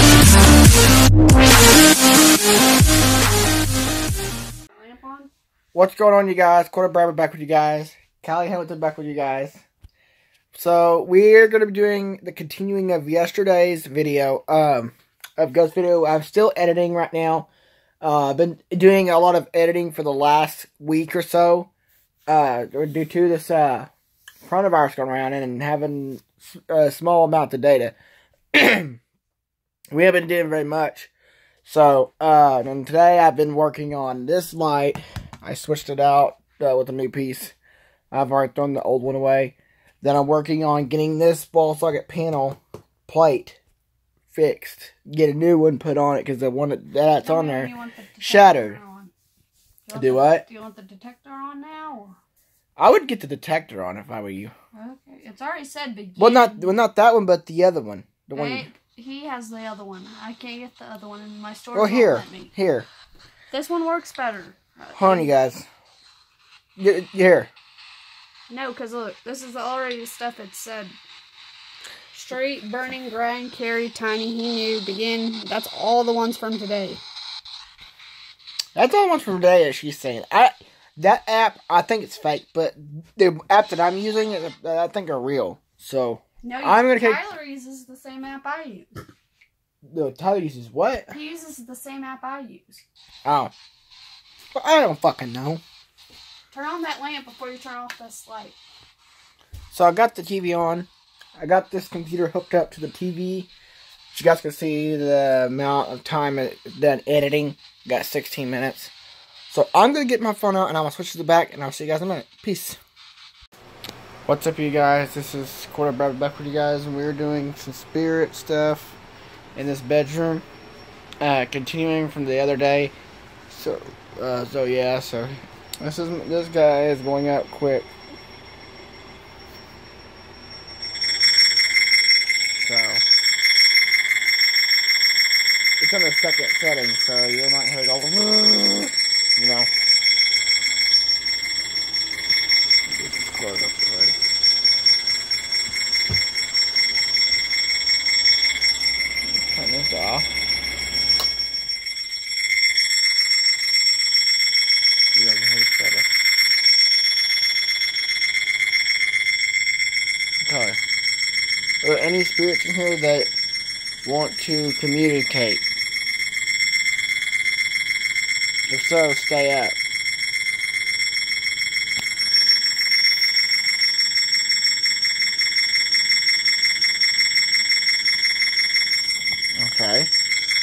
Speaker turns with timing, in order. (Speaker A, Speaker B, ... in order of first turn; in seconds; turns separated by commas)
Speaker A: 4.7-5.3, Speaker B: 5.7-9.6, Speaker B: 10.5-17.5, Speaker B: 18.0-21.7, Speaker B: 22.3-23.9, Speaker B: 24.4-27.9, Speaker B: 28.5-29.0, Speaker B: 29.9-31.1, Speaker B: 31.6-37.5, Speaker B: 38.1-43.6, Speaker B: 44.3-48.8, Speaker A: 47.2-49.1, Speaker A: 49.9-52.2, Speaker B: 49.9-50.4, Speaker B: 52.8-54.5, Speaker A: 54.7-56.8, Speaker B: 56.2-58.7, Speaker A: 58.3-62.5, Speaker B: 61.7-62.9, Speaker A: 63.5-65.3, Speaker B: 64.9-65.7, Speaker B: 66.8-67.5, Speaker A: 68.5-71.0, Speaker A: 72.1-77.0, Speaker B: 78.7-87.2, Speaker A: 86.4-89.0, Speaker B: 89.9-91.1, Speaker A: 91.1-92.8, Speaker B: 93.2-93.5, Speaker B: 94.5-95.6, Speaker A: 96.5-98.6, Speaker B: 99.7-103.5, Speaker B: 104.1-108.9, Speaker B: 109.5-112.8, Speaker B: 114.2-119.0, Speaker B: 119.5-120.4, Speaker B: 121.2-122.9, Speaker B: 123.5-127.9, Speaker B: 132.6-133.0, Speaker B: 135.8-139.7, Speaker B: 142.8-144.2, Speaker B: 149.2-150.3, Speaker B: 155.1-156.1, Speaker B: 160.4-160.8, Speaker B: 161.8-163.3, Speaker B: 164.0-165.6, Speaker B: 168.7-169.8, Speaker B: 179.5-180.1